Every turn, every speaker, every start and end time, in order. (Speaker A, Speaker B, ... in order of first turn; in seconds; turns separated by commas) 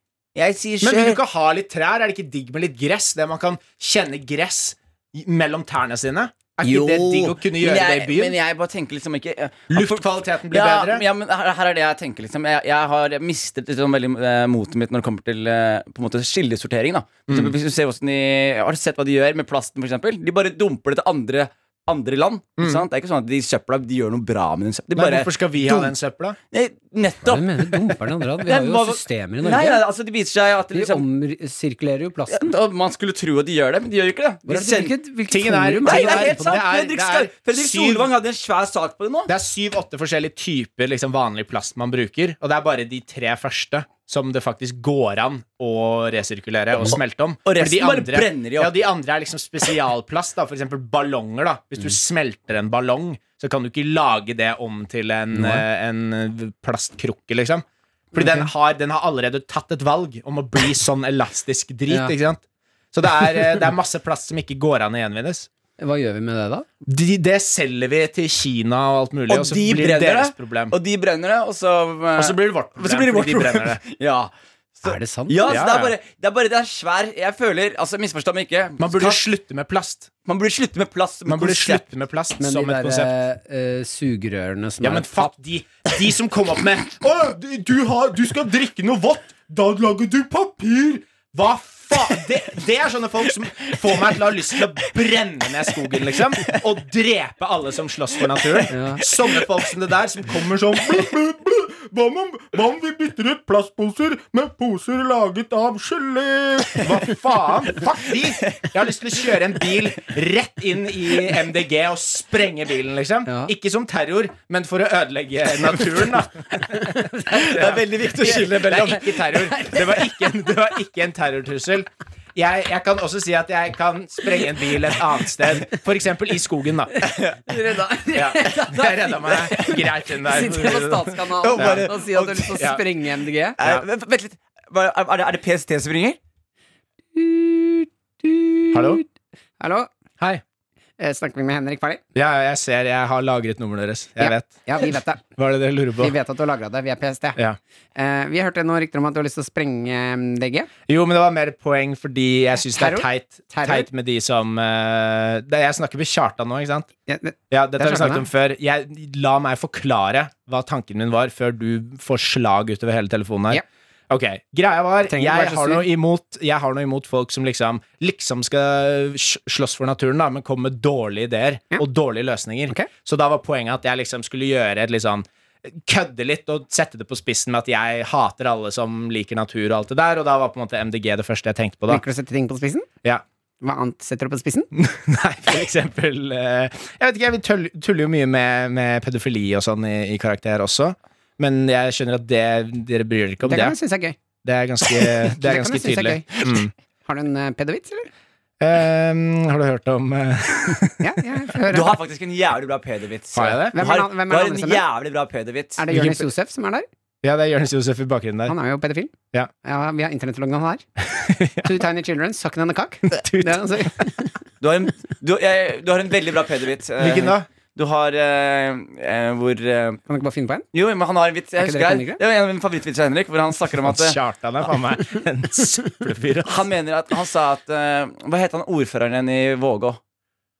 Speaker A: 0.3-1.2, Speaker B: 0.8-8.4, Speaker A: 6.6-25.9, Speaker B: 9.7-11.0, Speaker B: 17.3-17.5, Speaker B: 22.6-22.8, Speaker B: 24.9-26.4, Speaker A: 26.5-31.0, Speaker C: 27.2-29.8, Speaker C: 30.7-32.5, Speaker A: 32.3-34.9, Speaker C: 34.5-36.5, Speaker B: 35.3-38.1, Speaker A: 35.8-39.3, Speaker B: 39.3-65.5, Speaker A: 47.4-48.7, Speaker C: 55.3-55.6, Speaker C: 58.1-58.5, Speaker C: 61.9-62.1, Speaker C: 65.8-66.7, Speaker B: 66.8-70.7, Speaker A: 69.3-79.2, Speaker B: 72.2-73.8, Speaker C: 74.8-75.6, Speaker B: 75.5-75.9, Speaker B: 78.8-80.1, Speaker A: 80.2-81.8, Speaker B: 81.2-83.1, Speaker C: 82.4-85.3, Speaker B: 84.8-127.0, Speaker C: 98.7-99.0, Speaker C: 113.2-113.5, Speaker A: 115.6-116.1, Speaker C: 116.7-117.7, Speaker A: 117.3-119.5, Speaker C: 118.2-120.5, Speaker C: 126.9-133.6, Speaker A: 127.1-127.4, Speaker B: 128.1-131.9, Speaker A: 131.4-132.8, Speaker A: 133.6-136.2, Speaker C: 137.1-139.0, Speaker B: 138.7-139.0, Speaker C: 139.6-139.9, Speaker C: 141.0-142.0, Speaker B: 142.1-146.1, Speaker C: 144.2-145.2, Speaker C: 146.0-147.4, Speaker C: 147.9-150.7, Speaker B: 150.9-156.9, Speaker C: 152.7-153.9, Speaker C: 157.1-158.2, Speaker B: 157.5-182.0, Speaker C: 165.1-165.9, Speaker C: 181.9-182.9, Speaker C: 183.6-184.7, Speaker B: 184.7-193.8, Speaker C: 193.4-194.1, Speaker B: 194.4-196.7, Speaker C: 195.3-198.1, Speaker B: 198.6-201.5, Speaker C: 201.0-201.9, Speaker A: 201.7-205.8, Speaker B: 203.3-203.8, Speaker C: 203.7-204.8, Speaker C: 205.8-206.8, Speaker B: 205.9-206.3, Speaker B: 207.2-208.5, Speaker C: 208.5-210.8, Speaker B: 211.1-211.7, Speaker C: 211.6-214.3, Speaker B: 213.1-214.0, Speaker A: 214.6-220.0, Speaker B: 217.0-217.5, Speaker C: 220.1-220.7, Speaker A: 220.7-224.2, Speaker C: 221.6-222.2, Speaker B: 223.8-226.7, Speaker A: 226.4-230.0